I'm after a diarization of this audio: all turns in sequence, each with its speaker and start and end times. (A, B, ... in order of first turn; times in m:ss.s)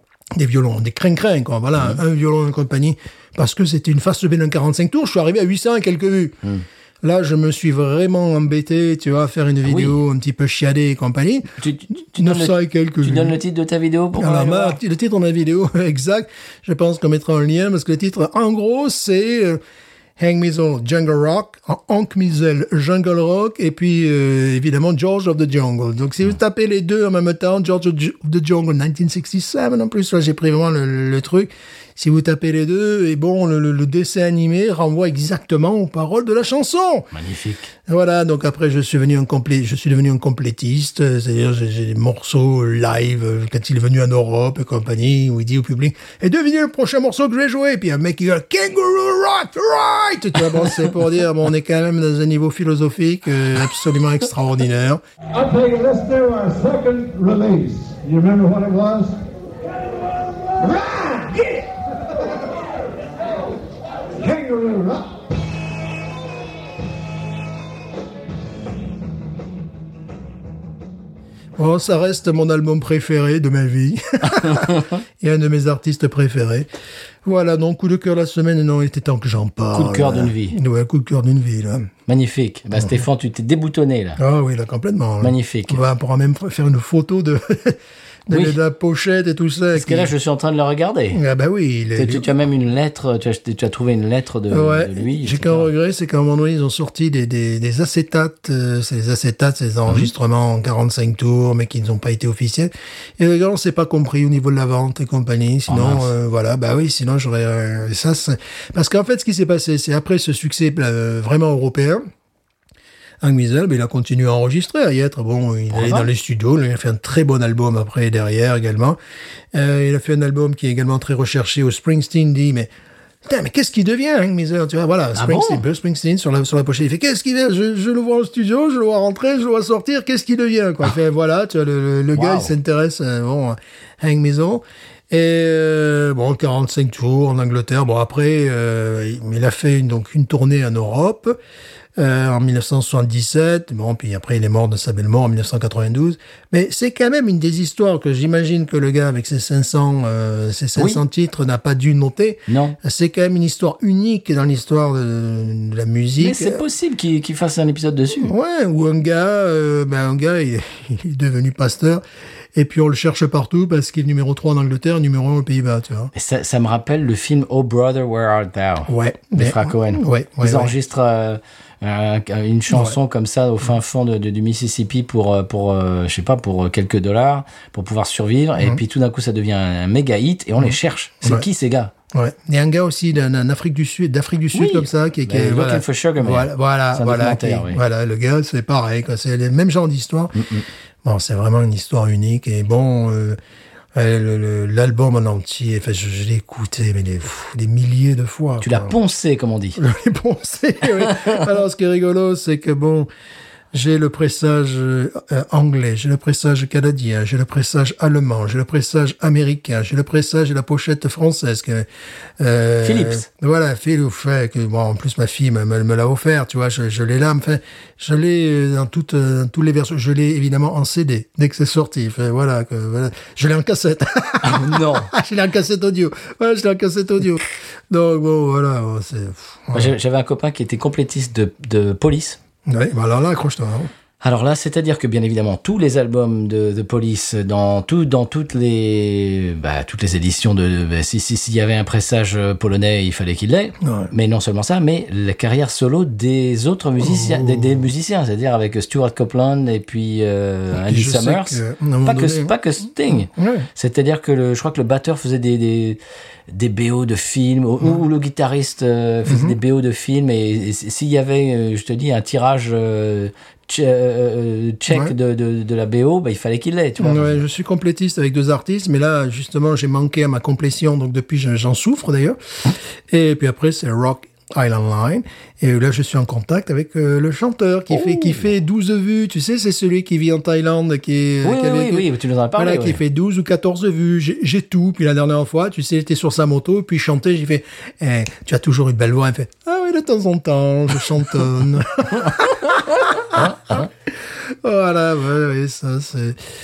0:00.4-0:06.4 A
0:07.0-0:11.6 A
0:09.6-0:10.0 B
0:11.6-0:14.8 B
0:12.2-0:13.4 A
0:14.2-0:19.6 A
0:20.2-0:37.1 A
0:37.1-0:37.7 B
0:37.9-0:55.0 A
0:55.3-0:59.2 C
1:00.6-1:01.6 C
1:04.2-1:05.1 C
1:11.6-1:16.7 A
1:17.2-1:21.9 A
1:19.7-1:20.6 B
1:22.1-1:24.2 B
1:22.8-1:23.0 A
1:24.2-1:30.1 A
1:25.2-1:25.8 B
1:28.3-1:28.6 B
1:29.8-1:31.2 B
1:31.1-1:32.3 A
1:32.0-1:35.7 B
1:34.5-1:52.0 A
1:45.7-1:46.1 B
1:53.2-1:59.0 A
1:55.7-1:56.1 B
1:59.5-2:02.7 A
2:03.2-2:21.4 A
2:05.2-2:05.6 B
2:12.2-2:12.5 B
2:22.0-2:36.6 A
2:30.8-2:31.0 B
2:32.5-2:32.8 B
2:36.2-2:38.3 B
2:38.2-2:42.0 A
2:42.6-2:46.1 A
2:46.1-3:01.9 B
2:48.9-2:50.7 A
2:52.7-2:53.0 A
3:00.6-3:01.5 A
3:02.1-3:10.5 A
3:04.5-3:07.8 B
3:10.4-3:10.6 B
3:11.0-3:13.4 A
3:14.0-3:19.0 A
3:18.6-3:19.8 B
3:19.8-3:23.1 A
3:23.7-3:31.9 A
3:32.4-3:49.9 A
3:32.8-3:33.2 B
3:44.4-3:45.1 B
3:49.7-3:52.4 B
3:52.7-3:53.9 A
3:54.2-4:27.4 B
4:03.8-4:04.1 A
4:07.0-4:07.9 A
4:10.7-4:12.6 A
4:13.3-4:13.7 A
4:19.3-4:19.6 A
4:27.0-4:56.4 A
4:37.9-4:38.5 B
4:41.4-4:43.0 B
4:52.6-4:53.8 B